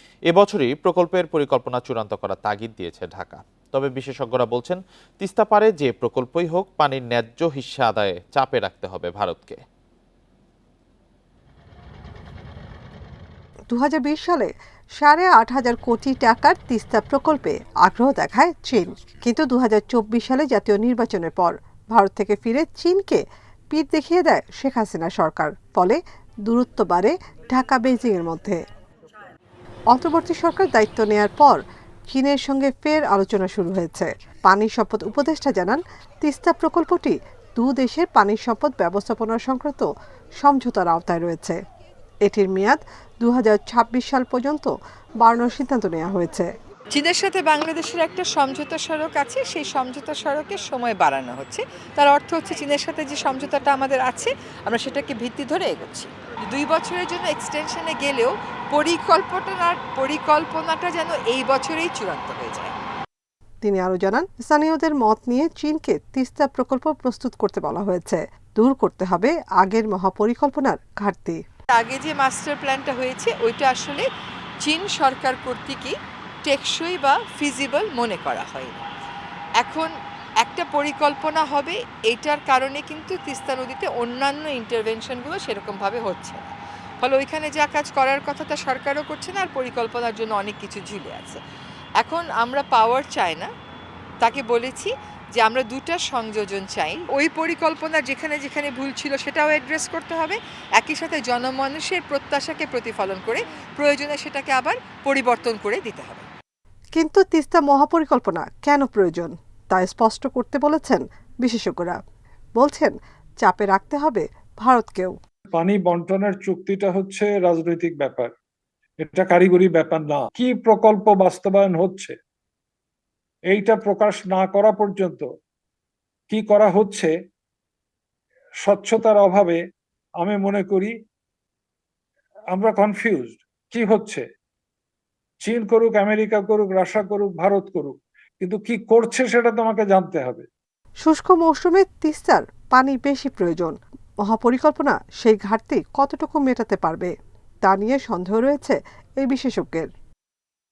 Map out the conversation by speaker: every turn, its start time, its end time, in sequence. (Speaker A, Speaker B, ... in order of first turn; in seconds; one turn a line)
Speaker A: 0.3-9.6
Speaker B: 13.7-28.6
Speaker B: 29.9-41.6
Speaker B: 42.2-46.5
Speaker C: 46.9-62.7
Speaker B: 63.6-71.4
Speaker C: 71.7-74.0
Speaker C: 74.6-78.8
Speaker C: 79.6-79.9
Speaker C: 80.4-91.4
Speaker C: 92.0-93.5
Speaker C: 94.2-106.3
Speaker B: 107.0-112.0
Speaker B: 112.6-115.2
Speaker D: 115.5-118.3
Speaker D: 119.0-122.2
Speaker D: 123.5-125.2
Speaker D: 126.3-127.1
Speaker D: 128.6-129.6
Speaker D: 130.2-130.9
Speaker D: 132.5-134.2
Speaker D: 135.4-140.5
Speaker B: 141.0-147.1
Speaker B: 147.7-149.9